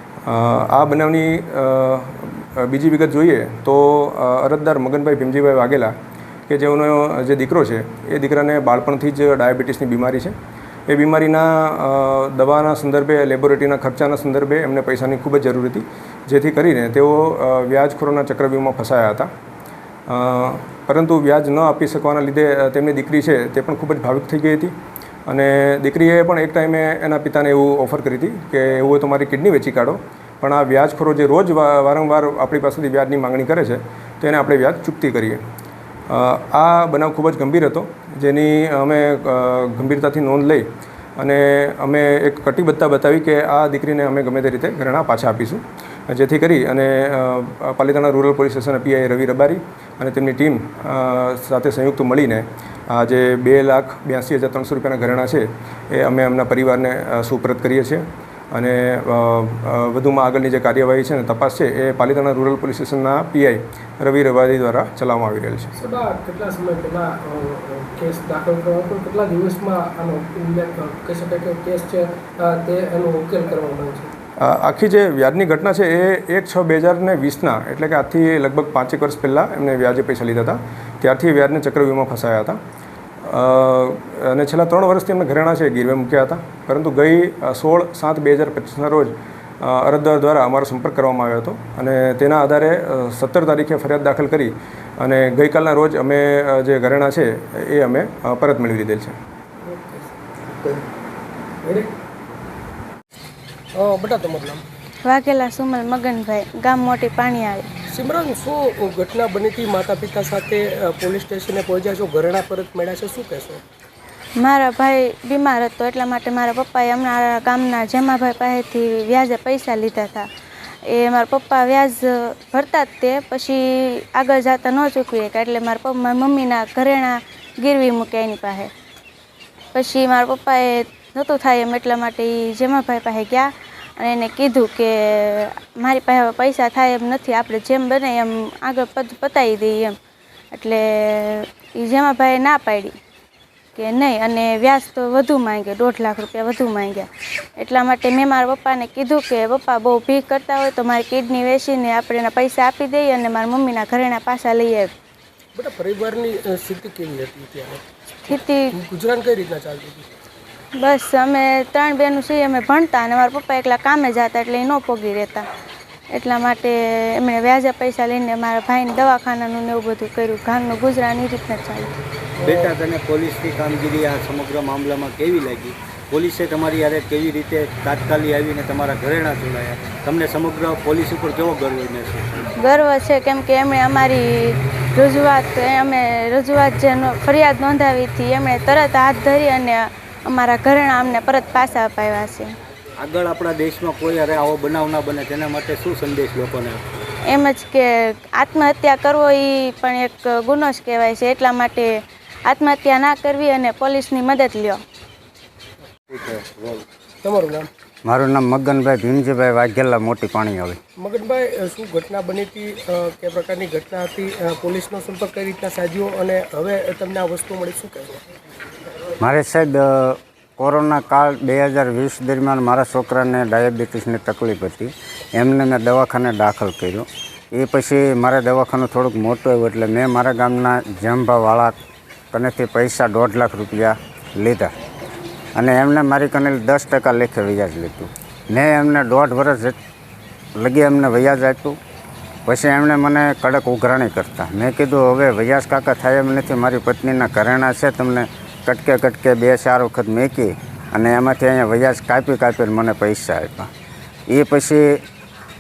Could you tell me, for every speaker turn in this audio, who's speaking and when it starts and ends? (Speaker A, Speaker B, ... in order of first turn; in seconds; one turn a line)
Speaker A: 0.3-5.9
Speaker A: 6.5-10.3
Speaker A: 10.9-19.3
Speaker A: 20.1-24.7
Speaker A: 25.3-35.4
Speaker A: 36.1-40.7
Speaker A: 41.2-65.7
Speaker B: 65.8-74.1
Speaker A: 74.4-82.6
Speaker A: 83.2-99.2
Speaker B: 99.7-100.8
Speaker B: 101.6-101.9
Speaker B: 103.8-104.6
Speaker C: 105.1-107.7
Speaker B: 107.9-113.6
Speaker C: 114.4-120.3
Speaker C: 120.9-128.7
Speaker C: 129.8-139.9
Speaker C: 140.5-142.9
Speaker C: 143.8-147.1
Speaker C: 147.6-154.9
Speaker B: 155.6-160.1
Speaker C: 158.3-158.6
Speaker C: 160.8-165.5
Speaker C: 166.1-171.9
Speaker B: 172.4-172.7
Speaker D: 172.5-182.4
Speaker C: 182.6-192.5
Speaker D: 193.0-196.8
Speaker C: 197.3-201.9
Speaker C: 202.5-204.8
Speaker D: 206.1-206.8
Speaker B: 207.2-207.7
Speaker E: 208.1-210.8
Speaker B: 211.0-218.2
Speaker E: 219.2-231.8
Speaker E: 232.3-234.7
Speaker E: 235.6-239.8
Speaker E: 240.6-241.8
Speaker E: 242.5-253.7
Speaker E: 254.3-254.9